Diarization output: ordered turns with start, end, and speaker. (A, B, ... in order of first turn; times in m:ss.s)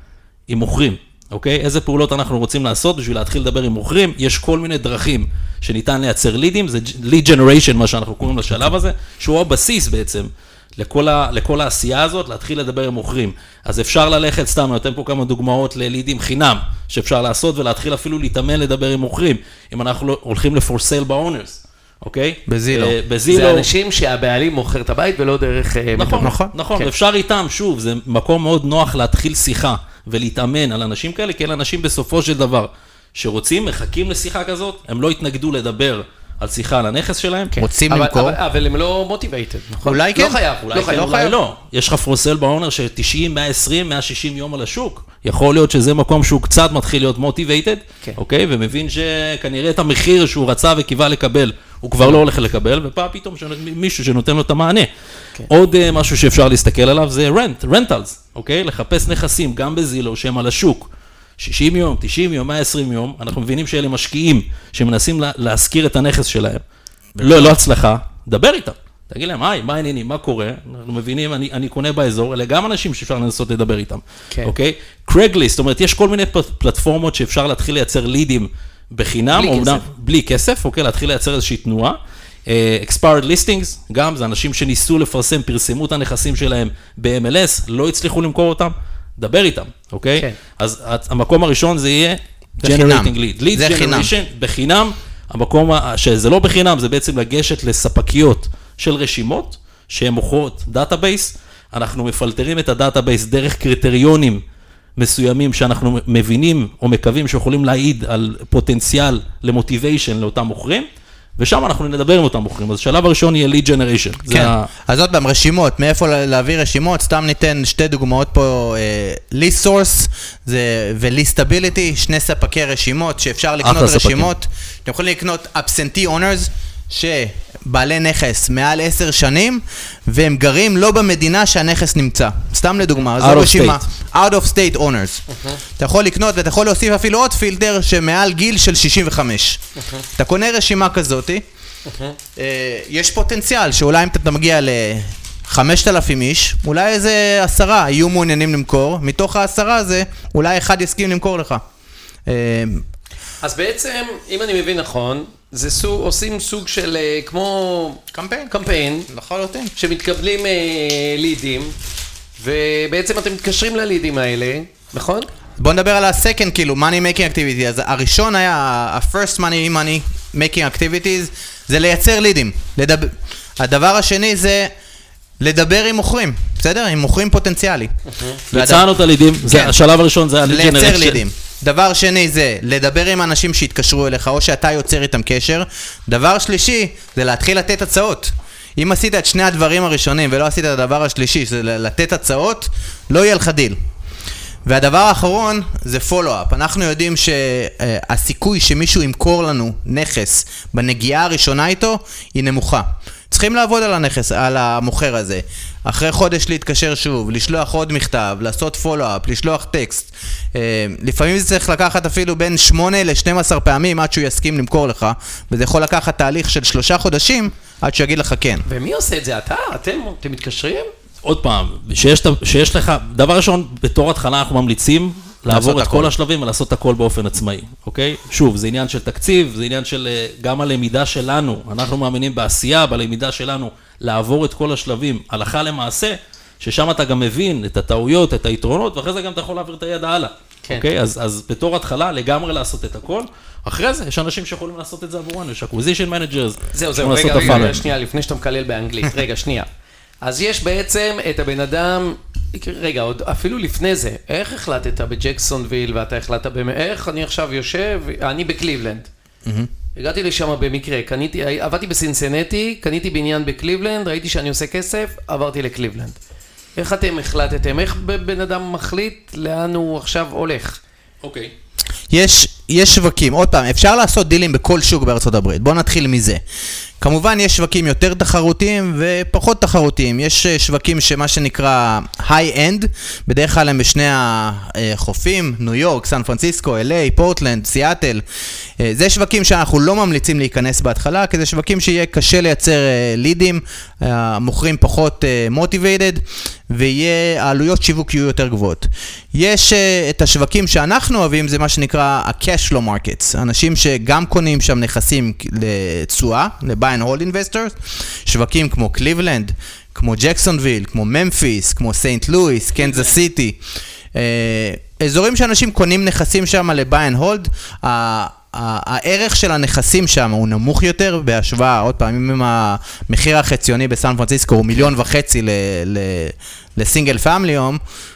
0:00.5-0:23.6 A
0:22.5-0:22.9 B
0:23.3-0:26.9 C
0:26.0-0:37.5 A
0:26.2-0:26.5 B
0:37.5-0:41.3 C
0:37.6-0:38.4 B
0:39.8-0:40.4 B
0:40.6-0:54.9 A
0:40.9-0:41.3 B
0:55.5-1:06.6 A
1:07.2-1:07.6 B
1:07.2-1:44.4 A
1:19.3-1:19.8 C
1:32.6-1:34.1 B
1:45.0-1:54.7 A
1:54.3-2:15.2 B
2:03.6-2:04.3 A
2:13.2-2:13.8 A
2:15.3-2:15.6 C
2:15.8-2:21.4 B
2:21.8-2:22.2 C
2:22.4-2:31.6 B
2:32.3-2:32.8 B
2:33.4-2:39.1 C
2:38.1-2:38.5 B
2:39.1-2:39.7 B
2:39.8-2:41.8 C
2:42.4-2:45.3 C
2:45.6-2:54.7 B
2:55.4-2:57.9 B
2:58.1-2:58.4 C
2:58.5-2:58.9 B
2:58.5-3:01.2 A
2:59.5-2:59.7 B
3:00.4-3:13.8 B
3:14.6-3:38.6 B
3:38.7-3:40.9 C
3:41.2-4:07.9 A
3:45.5-3:46.1 B
4:06.7-4:09.7 C
4:10.2-4:19.1 C
4:19.4-4:19.7 B
4:20.0-4:26.2 C
4:26.8-4:30.8 C
4:31.2-4:31.5 A
4:32.1-4:36.4 B
4:37.0-4:48.2 B
4:48.8-5:13.6 B
5:14.1-5:27.8 B